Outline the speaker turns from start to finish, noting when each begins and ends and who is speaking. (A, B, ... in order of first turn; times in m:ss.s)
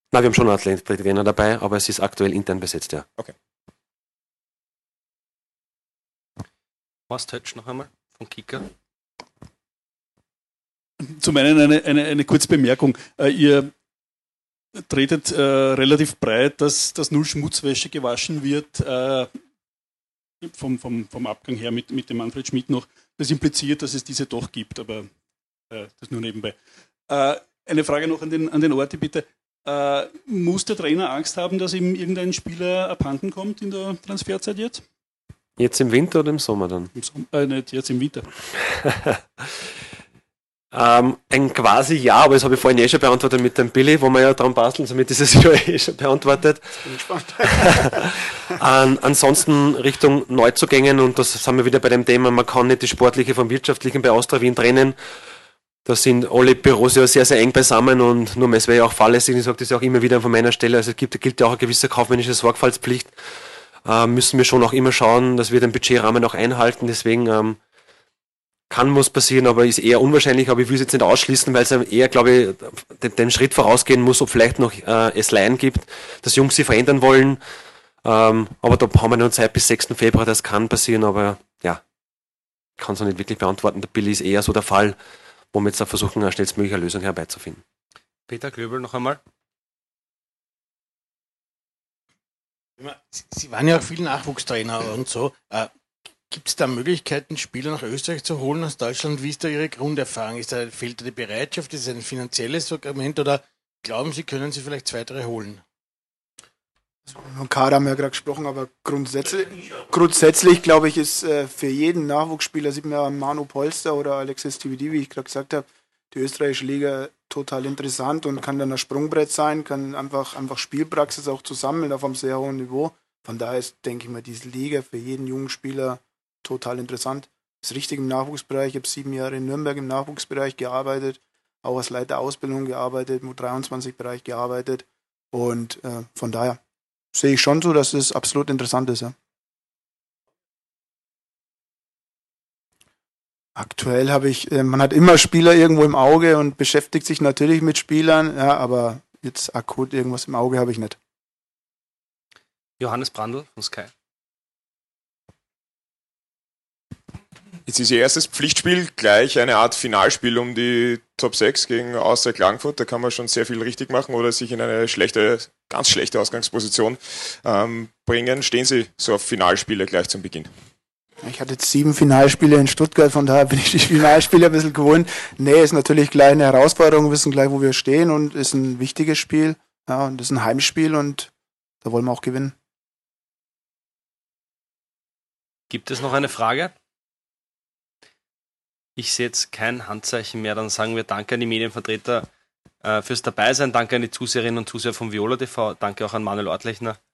0:00.1-0:03.0 A
0:07.1-0:08.7 B
0:11.0-0:13.7 C
0:14.9-0:19.3 C
0:20.4-0:25.1 C
0:25.7-0:26.6 C
0:27.1-0:34.8 C
0:35.6-0:36.9 A
0:36.9-0:38.3 C
0:38.8-0:39.2 A
0:40.7-0:46.8 A
0:46.8-0:48.2 D
0:47.6-0:55.0 A
0:55.8-1:03.2 A
1:03.8-1:07.6 A
1:08.7-1:17.4 A
1:18.0-1:21.8 A
1:22.8-1:25.0 A
1:25.5-1:27.6 A
1:28.3-1:29.2 B
1:32.8-1:35.7 E
1:36.3-1:45.6 E
1:47.1-2:16.6 D
2:17.1-2:19.1 D
2:23.6-2:31.0 D
2:32.8-2:33.9 B
2:37.7-2:50.5 F
2:51.2-3:01.3 D
3:01.8-3:02.5 D
3:05.7-3:06.7 B
3:09.0-3:12.3 B
3:12.8-3:17.0 B